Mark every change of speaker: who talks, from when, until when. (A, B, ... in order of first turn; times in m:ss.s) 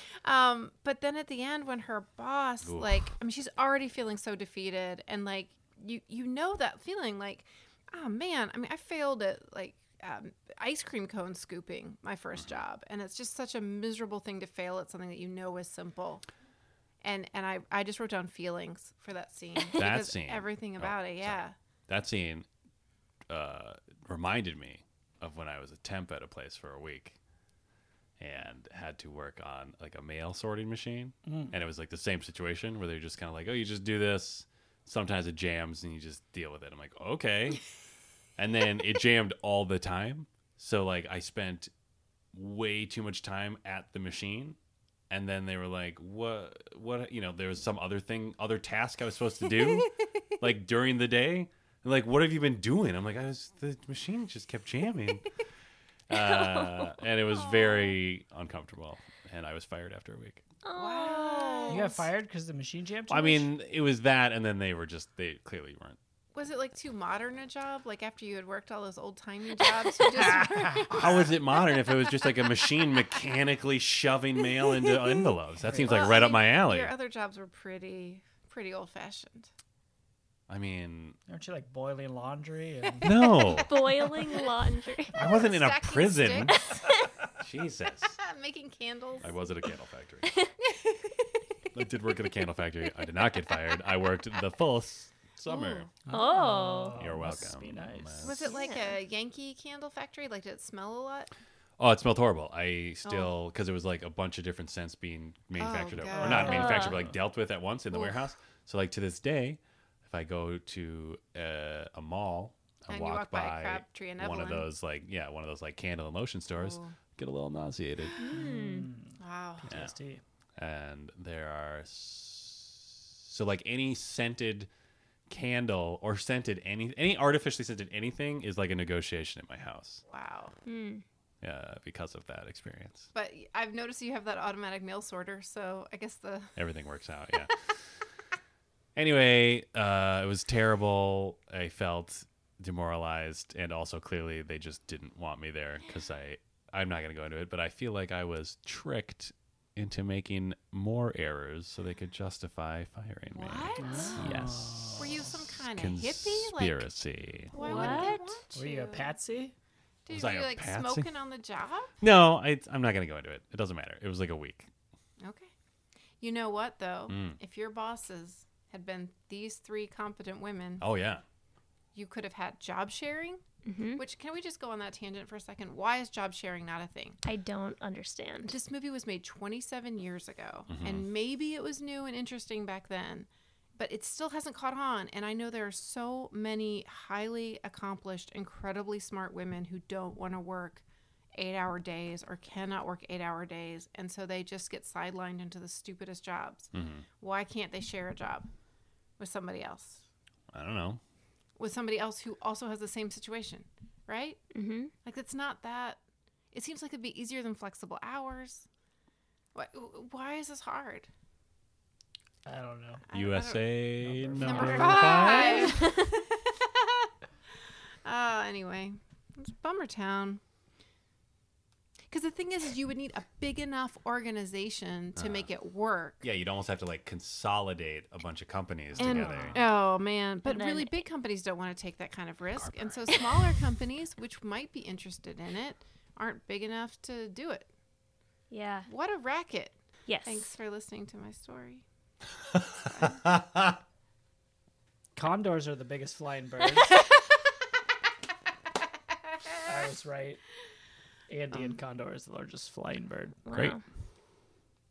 0:00.2-0:16.2 A
0:02.6-0:03.1 B
0:17.0-0:21.6 A
0:19.7-0:22.5 B
0:23.3-0:27.2 B
0:28.2-0:37.6 B
0:31.3-0:31.6 C
0:38.4-0:41.7 B
0:42.3-0:44.6 B
0:45.1-0:55.2 B
0:56.1-1:00.4 B
0:56.1-0:56.9 D
0:57.3-0:58.0 A
1:00.6-1:01.9 D
1:00.8-1:02.1 A
1:01.7-1:03.5 C
1:03.1-1:06.0 B
1:06.3-1:11.8 A
1:10.3-1:16.9 B
1:15.6-1:16.0 C
1:15.7-1:19.5 A
1:20.5-1:21.2 B
1:21.3-1:23.2 C
1:23.0-1:23.8 B
1:23.2-1:24.5 A
1:23.5-1:25.2 D
1:25.1-1:26.7 A
1:25.2-1:26.6 B
1:26.6-1:27.0 D
1:27.4-1:28.2 B
1:28.2-1:29.3 A
1:29.2-1:30.3 B
1:30.6-1:31.3 A
1:31.7-1:35.9 B
1:35.5-1:35.9 A
1:36.1-1:38.3 C
1:36.1-1:37.0 D
1:37.0-1:38.4 B
1:38.2-1:41.3 A
1:38.4-1:39.0 D
1:41.8-1:58.2 B
1:43.0-1:43.3 A
1:45.6-1:46.9 A
1:46.1-1:47.2 C
1:46.4-1:47.0 D
1:52.9-1:54.7 A
1:56.6-1:57.0 A
1:58.1-1:58.4 A
1:58.2-1:58.9 D
1:58.3-2:00.2 C
1:59.2-1:59.7 A
2:00.6-2:04.7 B
2:05.3-2:10.0 B
2:10.1-2:10.6 A
2:10.7-2:11.0 D
2:11.4-2:13.1 B
2:13.1-2:16.6 A
2:16.6-2:17.6 B
2:19.0-2:37.5 B
2:33.3-2:34.3 A
2:33.8-2:35.3 C
2:35.0-2:36.8 A
2:37.5-2:39.1 A
2:37.6-2:38.4 D
2:37.6-2:39.5 C
2:40.1-2:41.9 A
2:40.1-2:41.1 B
2:42.0-2:44.7 B
2:45.2-2:45.5 A
2:46.2-2:50.8 A
2:47.1-2:47.4 B
2:50.8-2:51.2 B
2:52.0-2:53.4 A
2:53.7-2:54.0 D
2:54.0-2:57.2 A
2:57.2-2:58.6 D
2:58.5-3:10.8 A
3:00.7-3:01.1 B
3:11.4-3:18.5 A
3:16.7-3:17.0 B
3:19.2-3:20.0 A
3:20.5-3:21.0 B
3:21.6-3:24.4 A
3:24.5-3:24.9 D
3:25.0-3:26.0 A
3:26.5-3:28.7 A
3:29.5-3:31.1 A
3:32.4-3:33.0 C
3:33.1-3:33.8 A
3:33.1-3:35.7 B
3:34.0-3:35.1 C
3:34.4-3:37.1 A
3:34.4-3:36.1 D
3:38.0-3:40.4 A
3:42.1-3:46.2 A
3:45.2-3:45.5 B
3:46.2-3:49.6 B
3:49.0-3:49.7 C
3:49.0-3:57.7 A
3:50.4-3:51.0 D
3:52.5-3:53.2 B
3:58.5-3:58.9 D
3:58.9-4:01.8 A
4:00.1-4:00.5 D
4:02.6-4:03.8 B
4:02.8-4:03.3 A
4:05.2-4:07.0 C
4:09.6-4:10.4 C
4:11.3-4:13.4 C
4:11.5-4:11.8 A
4:13.5-4:13.8 D